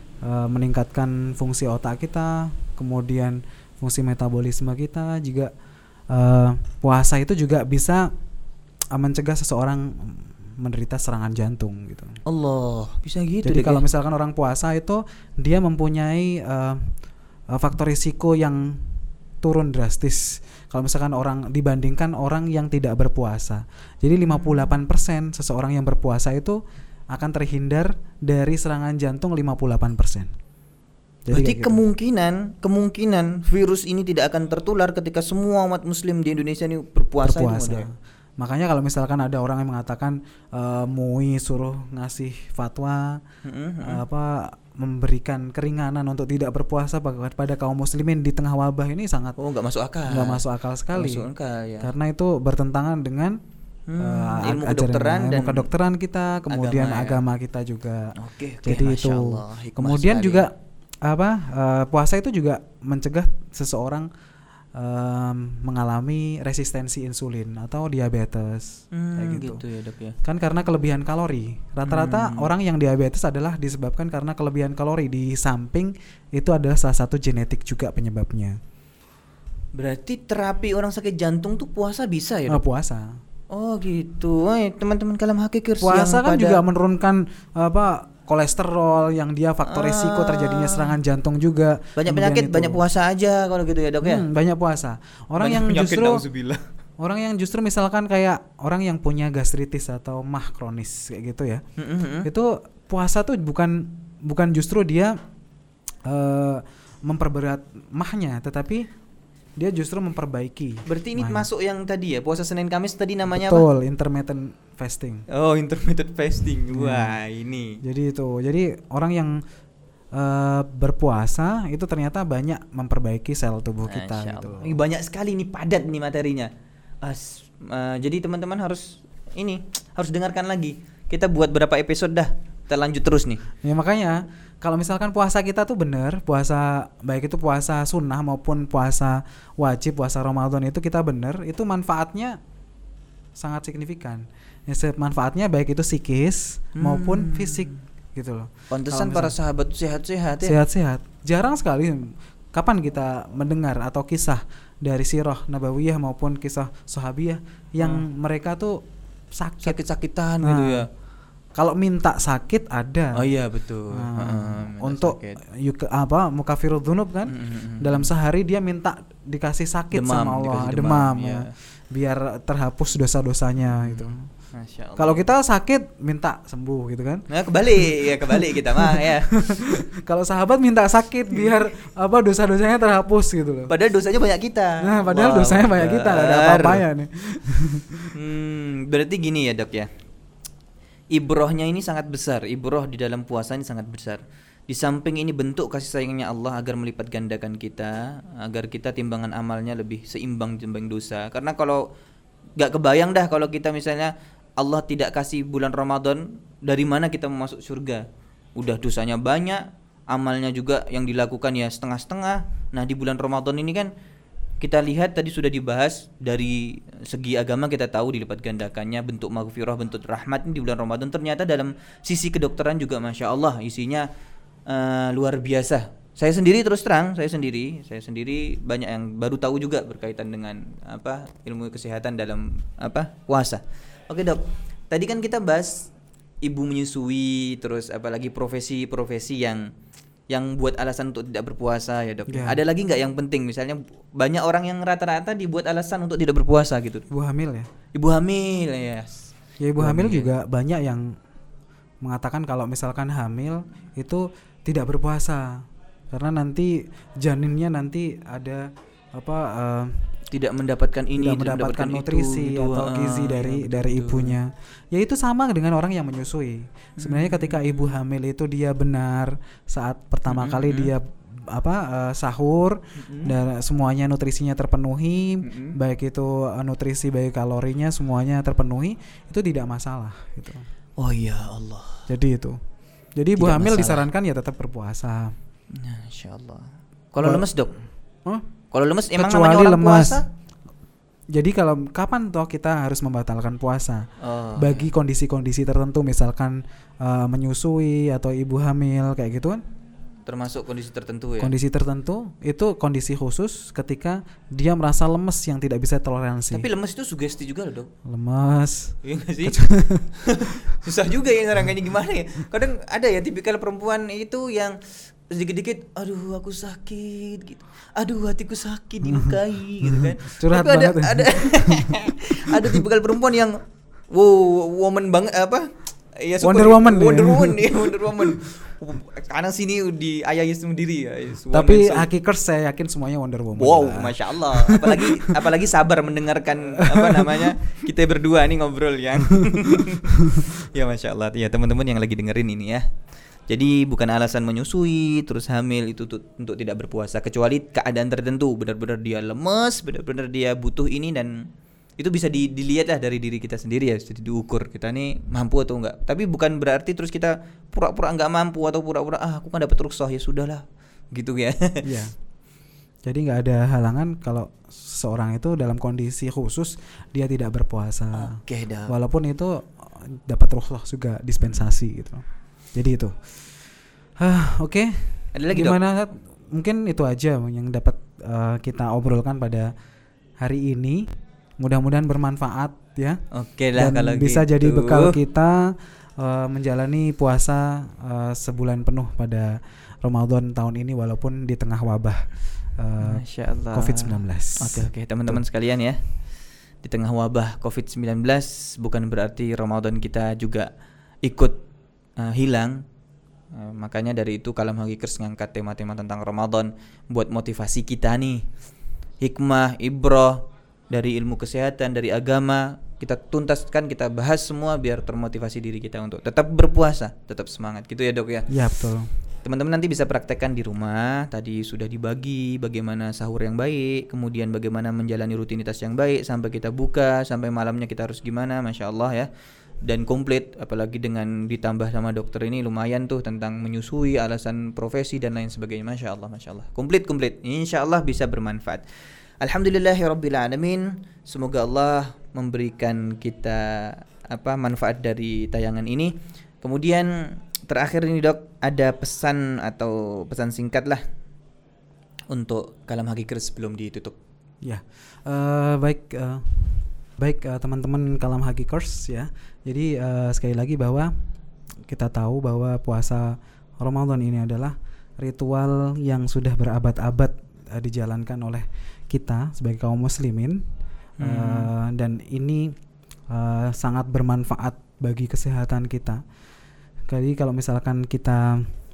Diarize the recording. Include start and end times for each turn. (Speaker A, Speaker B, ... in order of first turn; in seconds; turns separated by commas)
Speaker A: 0.2-5.5, Speaker A: 6.1-8.1, Speaker A: 8.9-12.2, Speaker B: 12.3-13.8, Speaker A: 13.4-16.9, Speaker A: 17.5-18.8, Speaker A: 19.4-26.6, Speaker B: 24.3-24.6, Speaker A: 27.1-30.3, Speaker A: 31.3-31.8, Speaker B: 31.3-37.9, Speaker A: 37.2-43.2, Speaker B: 43.4-44.0, Speaker A: 43.8-49.4, Speaker B: 49.4-51.9, Speaker A: 50.1-51.3, Speaker A: 51.8-53.4, Speaker B: 53.9-55.7, Speaker A: 54.0-58.1, Speaker B: 56.5-57.2, Speaker B: 58.2-60.5, Speaker A: 58.6-60.5, Speaker A: 61.0-64.1, Speaker A: 64.8-69.6, Speaker B: 68.9-70.2, Speaker A: 70.2-78.6, Speaker B: 71.8-72.5, Speaker B: 79.7-82.6, Speaker A: 82.5-83.2, Speaker B: 83.5-86.6, Speaker A: 85.8-92.8, Speaker B: 89.7-91.0, Speaker B: 92.0-94.2, Speaker A: 94.0-96.2, Speaker B: 95.4-96.6, Speaker A: 97.0-101.6, Speaker B: 101.8-102.3, Speaker A: 102.2-105.2, Speaker A: 106.0-108.9, Speaker A: 109.6-111.5, Speaker B: 110.9-113.7, Speaker A: 113.3-115.3, Speaker B: 115.3-117.8, Speaker A: 116.7-117.2, Speaker A: 117.8-119.4, Speaker A: 120.1-124.8, Speaker B: 123.8-126.5, Speaker B: 127.0-133.4, Speaker A: 133.6-142.4, Speaker A: 143.4-149.3, Speaker B: 146.8-147.8, Speaker B: 148.7-150.6, Speaker A: 150.4-158.8, Speaker B: 157.8-158.1, Speaker A: 159.3-159.8, Speaker B: 159.6-160.9, Speaker A: 160.4-160.9, Speaker A: 161.6-163.2, Speaker B: 163.2-165.4, Speaker A: 163.9-174.3, Speaker B: 167.3-168.1, Speaker B: 169.9-171.5, Speaker B: 173.8-175.3, Speaker A: 175.0-183.7, Speaker B: 177.3-179.8, Speaker B: 183.7-186.8, Speaker A: 184.8-188.1, Speaker B: 188.2-189.9, Speaker B: 191.1-201.8, Speaker B: 202.6-208.0, Speaker B: 208.6-213.9, Speaker B: 214.6-224.1, Speaker B: 224.7-235.9, Speaker B: 236.4-239.7, Speaker B: 240.3-247.1, Speaker A: 242.3-242.6, Speaker A: 247.1-247.7, Speaker B: 247.9-249.2, Speaker A: 249.6-251.1, Speaker B: 249.8-250.3, Speaker A: 252.0-260.1, Speaker B: 260.3-264.4, Speaker A: 261.2-280.7, Speaker B: 267.0-267.9, Speaker B: 270.3-270.9, Speaker B: 273.0-273.3, Speaker B: 275.4-275.8, Speaker B: 281.0-282.1, Speaker A: 282.1-282.6, Speaker A: 283.2-285.4, Speaker B: 283.4-284.1, Speaker B: 285.7-287.7, Speaker B: 288.7-290.2, Speaker A: 289.2-290.2, Speaker A: 291.3-299.6, Speaker B: 294.2-294.9, Speaker B: 300.3-301.5, Speaker A: 301.4-306.7, Speaker B: 306.5-307.9, Speaker A: 308.1-310.1, Speaker B: 309.0-309.6, Speaker B: 310.1-314.8, Speaker B: 315.3-323.6, Speaker A: 319.1-319.4, Speaker A: 319.9-322.8, Speaker B: 324.1-332.1, Speaker A: 326.4-328.4, Speaker A: 331.5-335.3, Speaker B: 333.6-342.9, Speaker A: 336.9-337.5, Speaker B: 343.5-351.4, Speaker B: 352.0-361.8, Speaker A: 361.8-362.1, Speaker A: 363.1-372.2, Speaker B: 368.1-368.9, Speaker A: 372.8-373.4, Speaker A: 374.2-379.7, Speaker B: 375.3-375.8, Speaker A: 380.4-381.1, Speaker A: 381.6-383.2, Speaker B: 383.3-385.2, Speaker A: 383.8-395.4, Speaker B: 393.0-396.0, Speaker B: 396.8-400.7, Speaker B: 401.2-401.6, Speaker B: 402.2-402.8, Speaker B: 403.5-408.5, Speaker B: 409.2-418.5, Speaker A: 418.5-419.1, Speaker B: 419.4-429.3, Speaker B: 429.9-438.9, Speaker B: 439.4-447.1, Speaker B: 447.7-451.0, Speaker B: 452.3-454.2, Speaker A: 454.6-461.1, Speaker A: 461.9-470.6, Speaker B: 471.2-471.7, Speaker A: 471.2-472.8, Speaker A: 473.3-476.2, Speaker A: 477.1-478.7